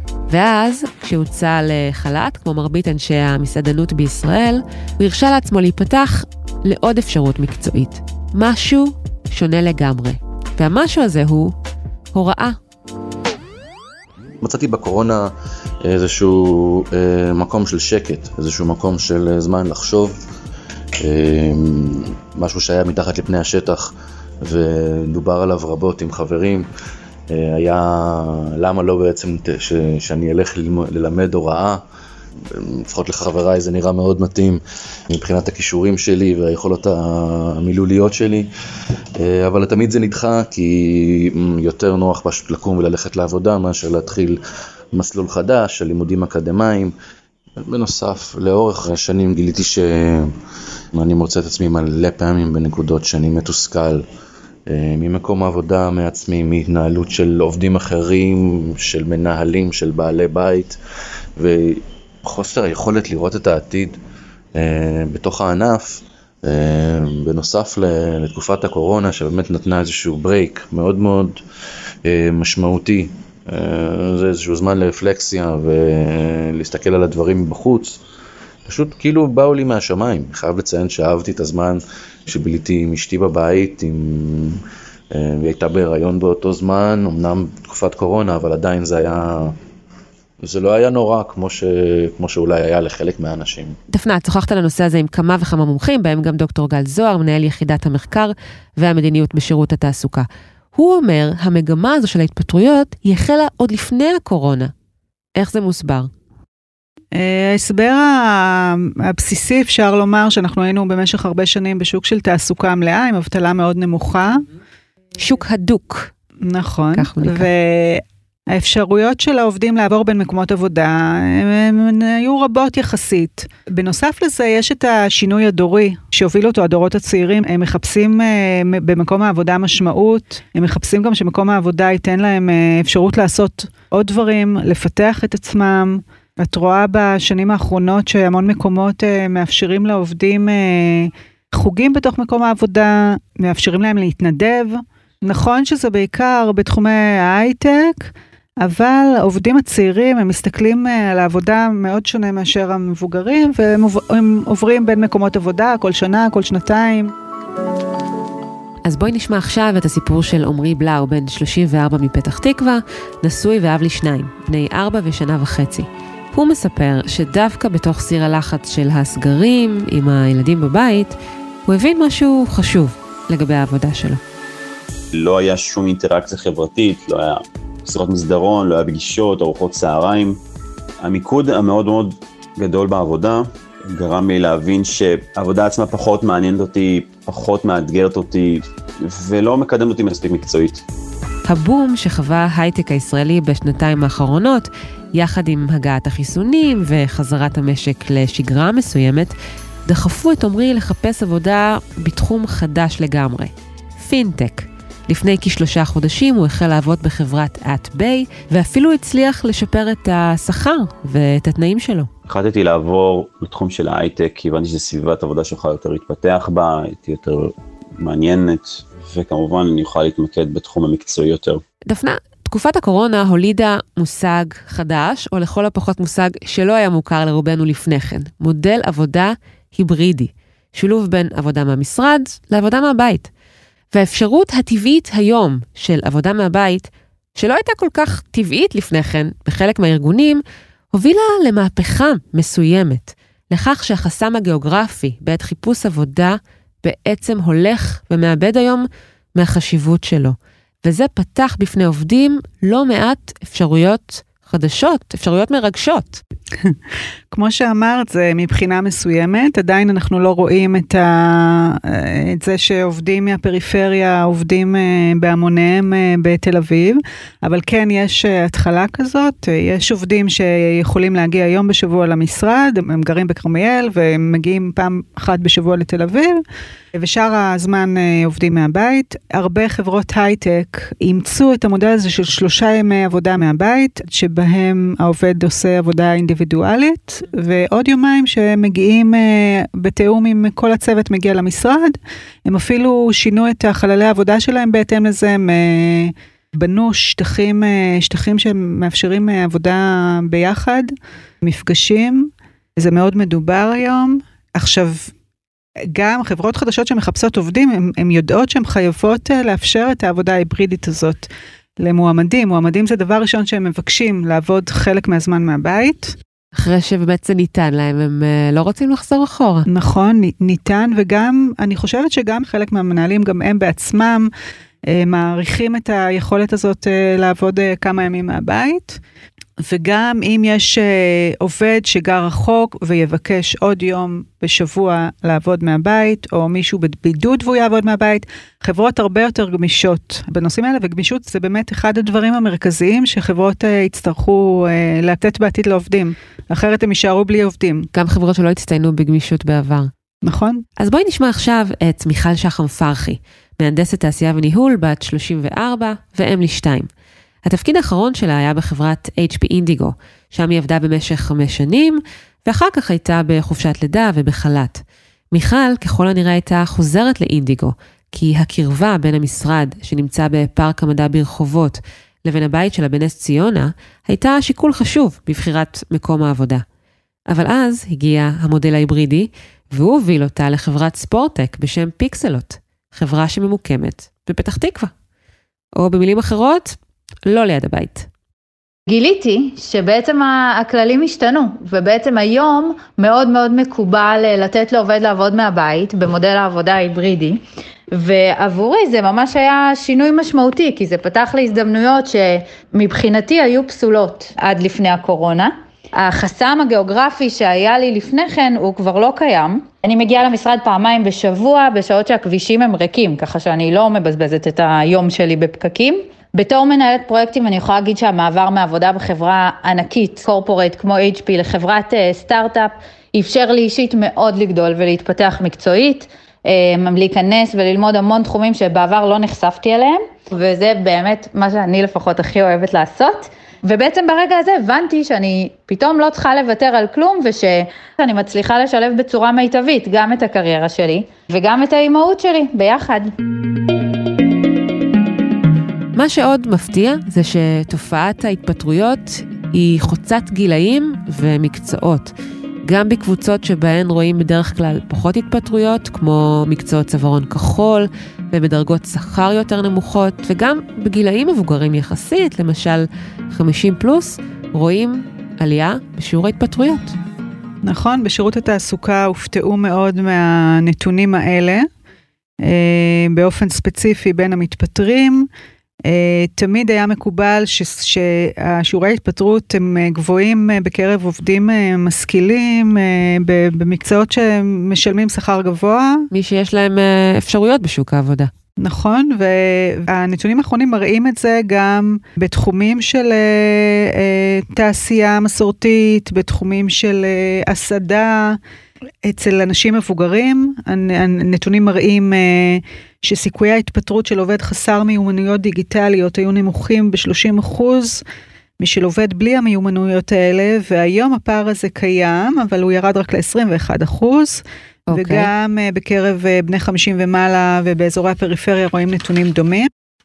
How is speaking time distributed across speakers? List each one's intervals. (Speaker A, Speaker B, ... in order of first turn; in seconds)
Speaker A: 0.3-11.6, 12.1-12.6, 93.9-104.7, 105.4-106.1, 115.2-116.1, 116.9-117.5, 158.8-171.2, 171.7-174.2, 191.5-199.3, 199.9-212.1, 221.9-233.3, 233.9-240.4, 240.9-256.2, 316.6-319.7, 347.9-349.9, 350.8-356.9, 357.4-376.6, 377.3-384.9, 385.8-388.1, 446.0-452.1, 452.6-467.0, 486.1-488.3, 514.9-515.3
Speaker B: 14.4-15.3, 15.8-20.2, 21.0-23.9, 24.4-26.7, 27.3-31.8, 32.5-38.5, 39.2-44.4, 44.9-46.9, 47.7-50.3, 50.9-54.0, 54.7-60.8, 61.4-64.0, 64.6-71.4, 72.1-78.0, 78.7-84.6, 85.1-89.6, 90.4-93.8
Speaker C: 107.1-114.5, 116.4-157.1, 257.3-276.4, 276.9-305.1, 305.9-316.2, 319.7-324.3, 324.8-329.0, 329.6-347.9, 350.2-350.6, 467.6-471.7, 472.4-475.3, 475.9-486.1, 488.6-498.4, 499.0-508.0, 508.6-519.7
Speaker D: 175.2-180.4, 181.0-190.8, 212.3-221.6
Speaker E: 388.9-397.4, 397.9-443.1